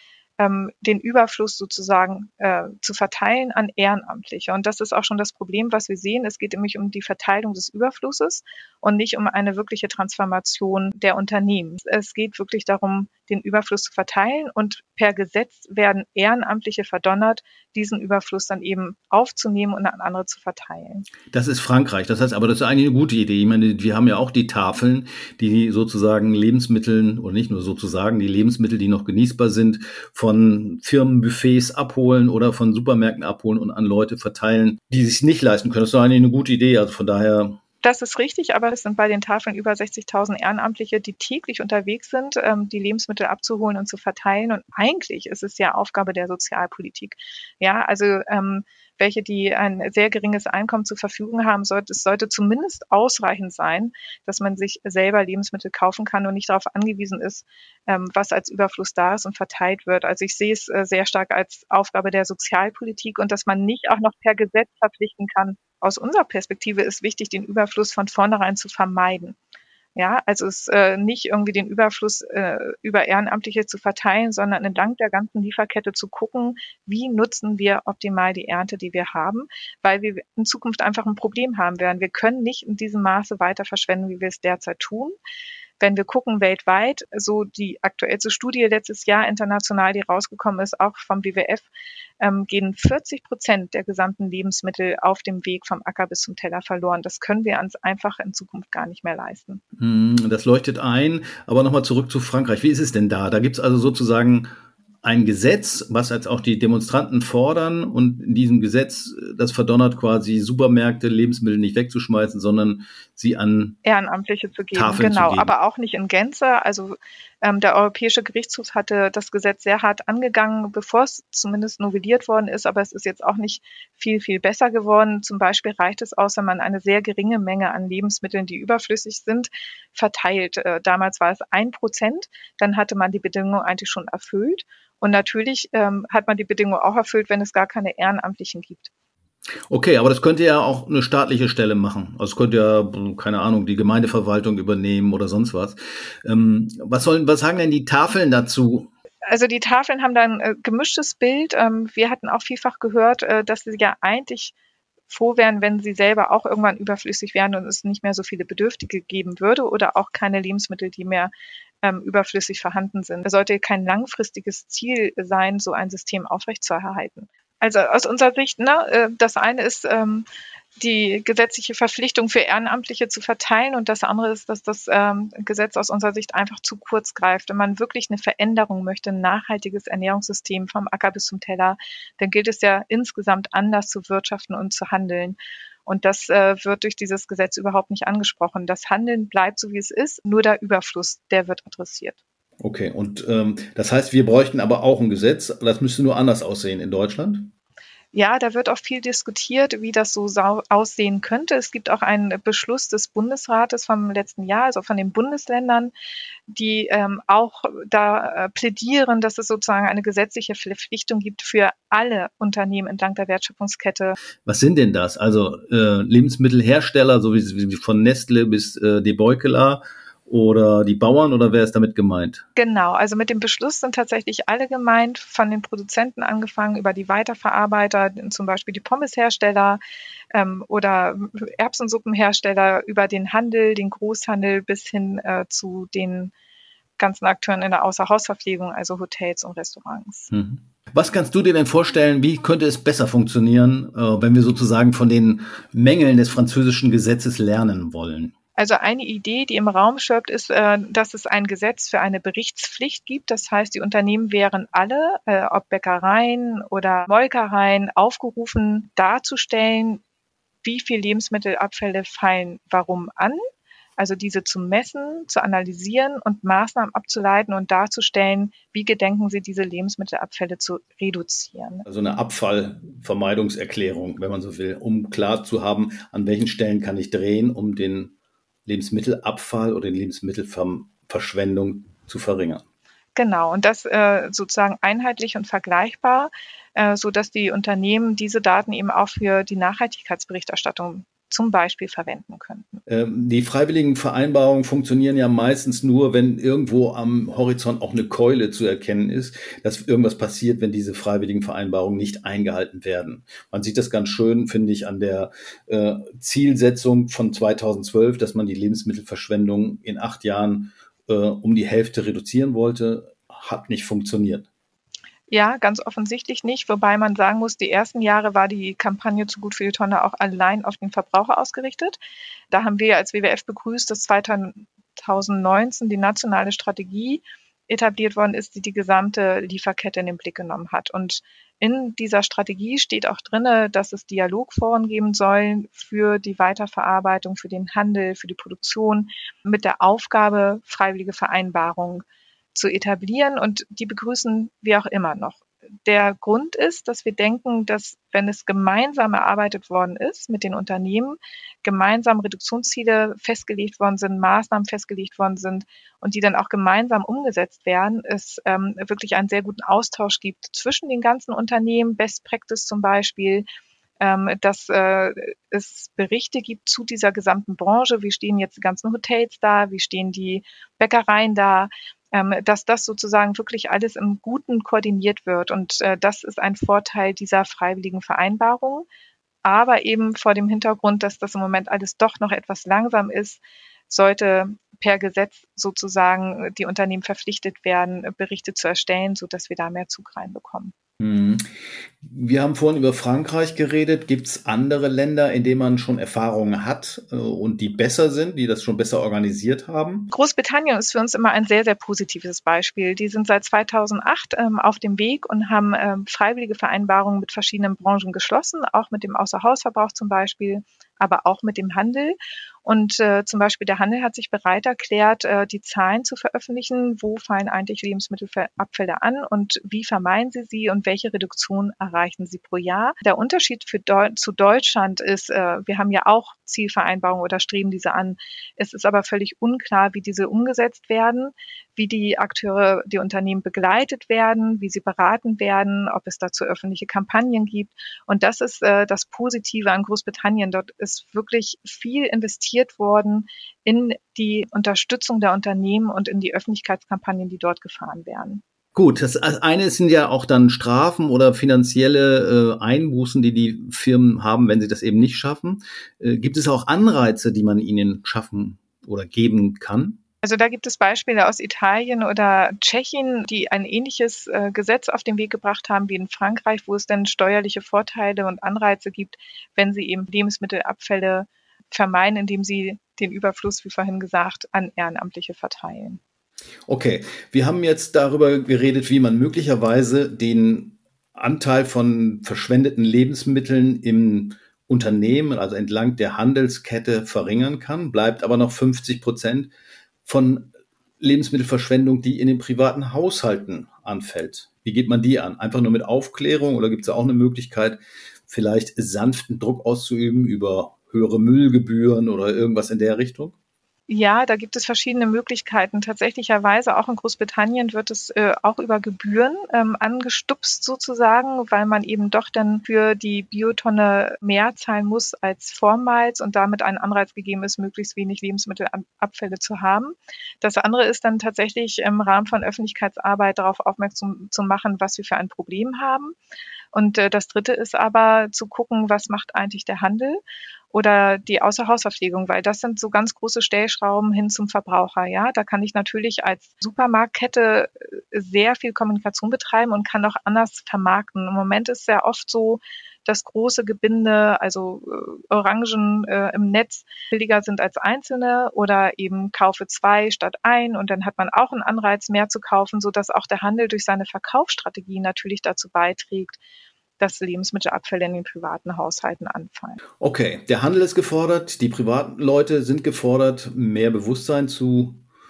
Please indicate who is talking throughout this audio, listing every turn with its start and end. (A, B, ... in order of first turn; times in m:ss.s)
0:00.4-0:21.1 A
0:21.3-0:37.6 B
0:37.8-1:09.4 A
1:10.0-1:25.2 A
1:25.8-1:31.7 A
1:32.2-1:39.6 A
1:39.8-1:44.5 B
1:45.0-1:53.8 B
1:53.8-2:18.9 A
1:54.7-1:55.5 B
2:19.7-2:28.9 B
2:29.3-2:34.5 A
2:35.1-2:41.3 A
2:41.8-2:50.2 A
2:50.8-3:12.2 A
3:12.6-3:17.5 B
3:18.1-3:25.9 A
3:26.5-3:34.2 A
3:34.4-3:42.4 B
3:42.6-3:49.8 A
3:50.3-3:56.3 A
3:57.0-4:00.3 A
4:00.3-4:08.3 B
4:08.6-4:20.0 A
4:20.6-4:23.4 A
4:24.0-4:31.8 A
4:31.9-4:38.1 B
4:38.6-4:42.6 B
4:43.2-4:52.8 A
4:52.9-5:14.5 B
5:15.3-5:22.0 A
5:22.5-6:03.4 A
6:04.0-6:18.8 A
6:19.4-6:30.7 A
6:31.0-6:40.1 B
6:40.1-7:28.4 A
7:28.7-7:40.0 B
7:40.2-7:56.0 A
7:56.7-8:09.5 B
8:10.0-8:23.3 B
8:23.9-8:46.2 A
8:46.7-8:50.2 A
8:50.7-9:16.4 A
9:17.0-9:19.8 A
9:20.0-9:25.0 B